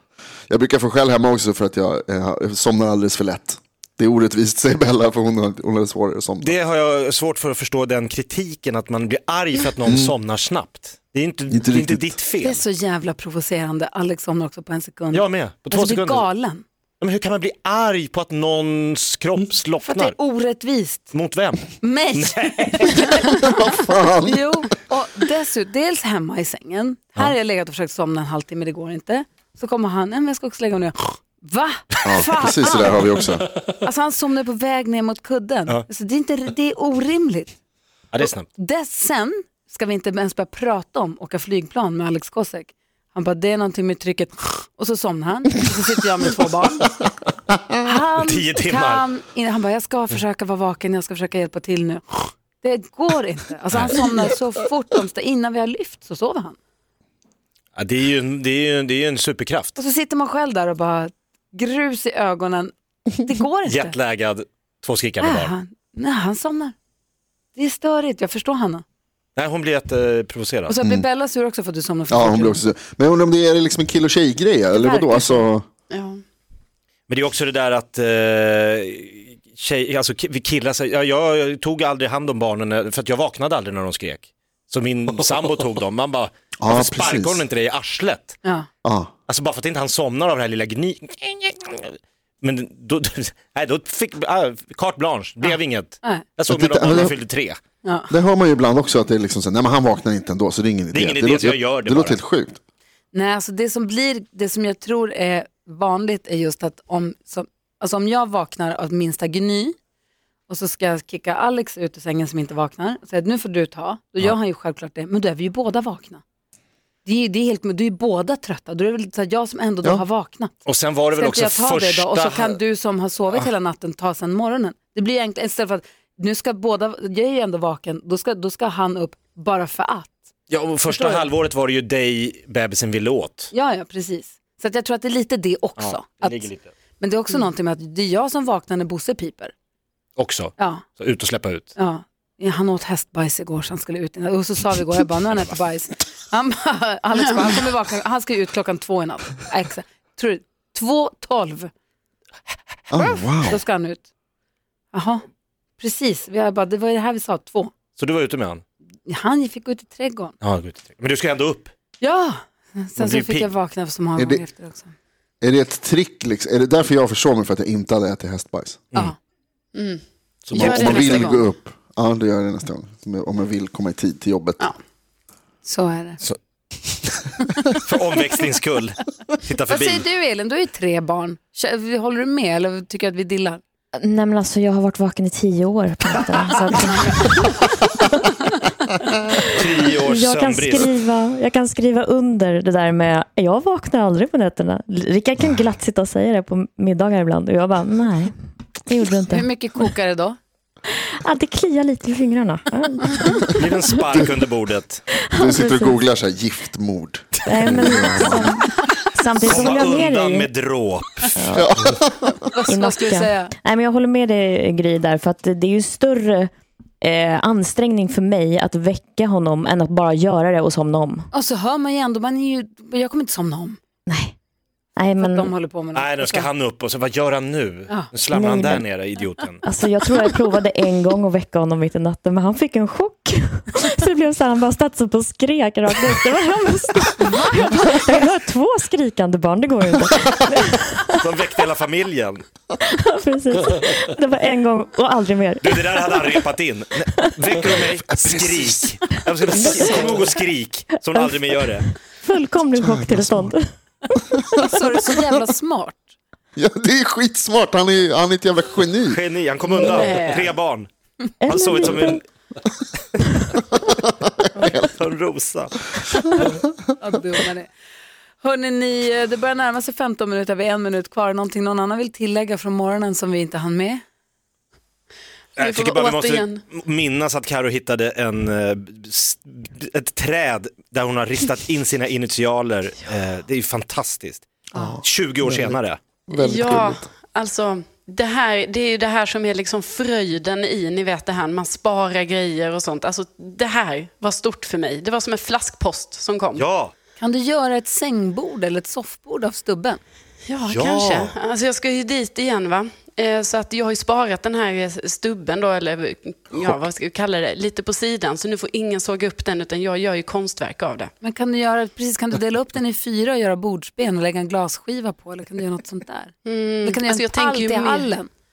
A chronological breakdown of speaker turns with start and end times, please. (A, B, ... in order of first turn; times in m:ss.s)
0:00.5-0:06.5 A
0:06.4-0:12.6 B
0:09.8-0:10.1 A
0:11.5-0:12.1 A
0:12.4-0:16.6 C
0:15.1-0:16.3 B
0:17.0-0:20.1 B
0:19.8-0:21.1 C
0:21.1-0:23.4 B
0:21.8-0:33.1 C
0:23.4-0:24.5 A
0:32.0-0:33.4 A
0:33.8-0:37.6 C
0:38.1-0:38.5 B
0:38.2-0:46.9 C
0:47.8-0:56.6 C
0:48.2-0:49.0 B
0:53.7-0:54.0 B
0:57.8-0:59.8 B
0:59.8-1:03.9 C
1:03.7-1:05.5 B
1:05.2-1:06.7 C
1:07.5-1:08.8 C
1:09.4-1:10.8 B
1:10.7-1:12.6 C
1:12.1-1:15.6 A
1:14.7-1:15.5 C
1:15.9-1:16.2 D
1:17.1-1:28.4 B
1:26.6-1:27.4 A
1:28.4-1:28.7 C
1:28.8-1:29.1 A
1:29.3-1:37.6 B
1:35.4-1:36.2 C
1:36.5-1:37.2 A
1:37.8-1:38.1 C
1:38.1-1:42.6 A
1:40.9-1:42.2 B
1:43.1-1:49.7 C
1:50.5-1:56.2 C
1:57.0-2:00.6 C
2:00.6-2:02.6 B
2:01.1-2:10.2 C
2:10.5-2:13.5 B
2:10.9-2:11.3 C
2:13.5-2:16.4 C
2:15.8-2:16.7 B
2:17.0-2:19.5 C
2:20.2-2:21.7 B
2:20.6-2:20.8 C
2:21.8-2:31.7 C
2:32.9-2:33.6 A
2:33.4-2:34.1 C
2:34.9-2:35.2 C
2:35.8-2:37.7 C
2:38.0-2:38.6 B
2:39.1-2:40.3 C
2:40.4-2:41.7 B
2:42.0-2:44.9 C
2:43.0-2:43.5 B
2:44.2-2:44.4 A
2:45.4-2:48.8 A
2:49.7-2:50.0 D
2:50.4-2:51.2 B
2:50.5-2:51.4 D
2:50.5-2:54.6 A
2:50.6-2:51.4 C
2:55.6-2:56.2 C
2:57.8-3:00.0 B
2:59.7-3:03.6 C
3:03.9-3:08.3 E
3:09.3-3:18.3 E
3:09.5-3:11.0 B
3:18.8-3:19.9 E
3:19.3-3:20.4 C
3:20.9-3:24.1 E
3:23.5-3:25.0 B
3:25.2-3:26.0 E
3:25.4-3:28.6 A
3:27.4-3:30.5 E
3:29.4-3:31.3 B
3:31.4-3:31.9 E
3:31.5-3:32.4 A
3:32.6-3:33.5 C
3:32.6-3:41.3 E
3:41.3-3:43.8 C
3:44.1-3:44.3 E
3:45.0-3:45.5 E
3:45.1-3:46.5 C
3:45.9-3:49.6 B
3:48.2-3:48.8 E
3:49.6-4:01.3 E
3:57.2-3:57.8 C
4:01.2-4:02.4 B
4:02.8-4:06.5 E
4:05.6-4:11.8 B
4:07.1-4:07.4 E
4:09.6-4:10.0 E
4:11.1-4:14.1 E
4:12.8-4:13.5 A
4:14.6-4:16.1 C
4:16.6-4:19.2 A
4:19.1-4:20.9 B
4:19.7-4:20.5 D
4:21.4-4:22.2 E
4:21.5-4:22.2 B
4:23.6-4:24.9 A
4:24.7-4:25.9 B
4:27.0-4:27.7 C
4:28.4-4:34.0 C
4:35.6-4:44.5 B
4:35.6-4:36.6 D
4:44.7-4:47.0 A
4:45.0-4:46.0 B
4:46.3-4:56.6 D
4:56.5-4:56.9 B
4:57.2-5:00.0 C
5:00.4-5:11.1 D
5:00.6-5:01.3 B
5:11.2-5:18.3 C
5:16.4-5:18.1 D